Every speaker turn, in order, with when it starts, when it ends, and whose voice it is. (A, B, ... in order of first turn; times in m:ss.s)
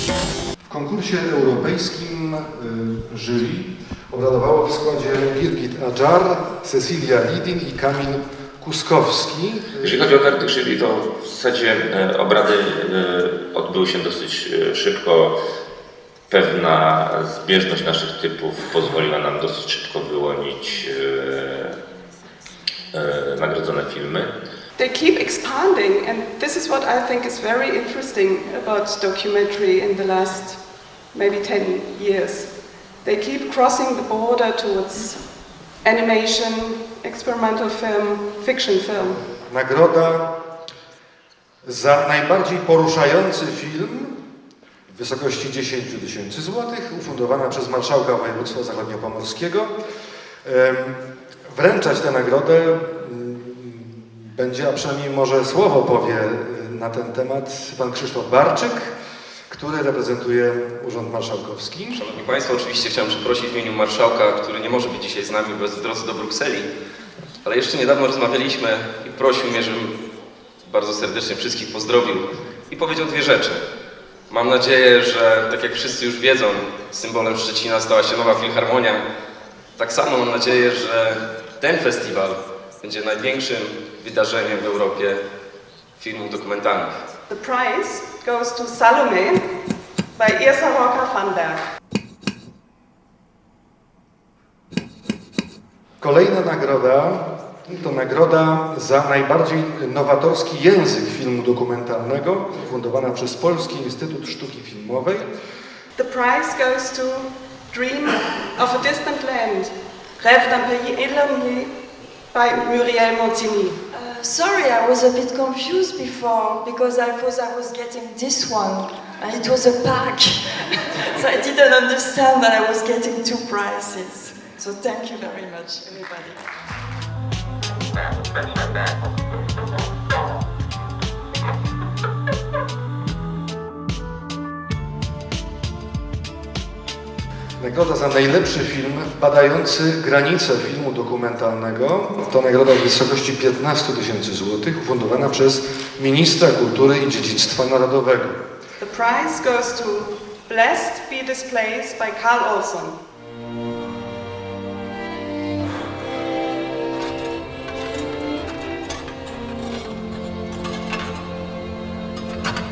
0:00.7-0:10.1 A
0:09.8-0:15.4 B
0:16.3-0:21.8 B
0:22.9-0:24.3 B
0:24.8-0:30.6 C
0:31.1-0:32.5 C
0:33.0-0:35.2 C
0:35.8-0:39.2 C
0:39.5-0:40.3 A
0:41.6-0:44.1 A
0:44.9-0:49.7 A
0:50.4-0:58.9 A
0:59.5-1:02.0 A
1:02.0-1:06.7 D
1:07.4-1:10.0 D
1:10.7-1:13.6 D
1:14.3-1:19.0 D
1:19.8-1:25.2 D
1:26.0-1:27.0 D
1:27.3-1:29.4 C
1:30.2-1:31.6 C
1:36.0-1:45.3 A
1:46.0-1:51.7 C
1:52.3-1:53.8 C
1:53.9-2:06.4 E
2:17.6-2:28.4 A
2:28.8-2:33.0 C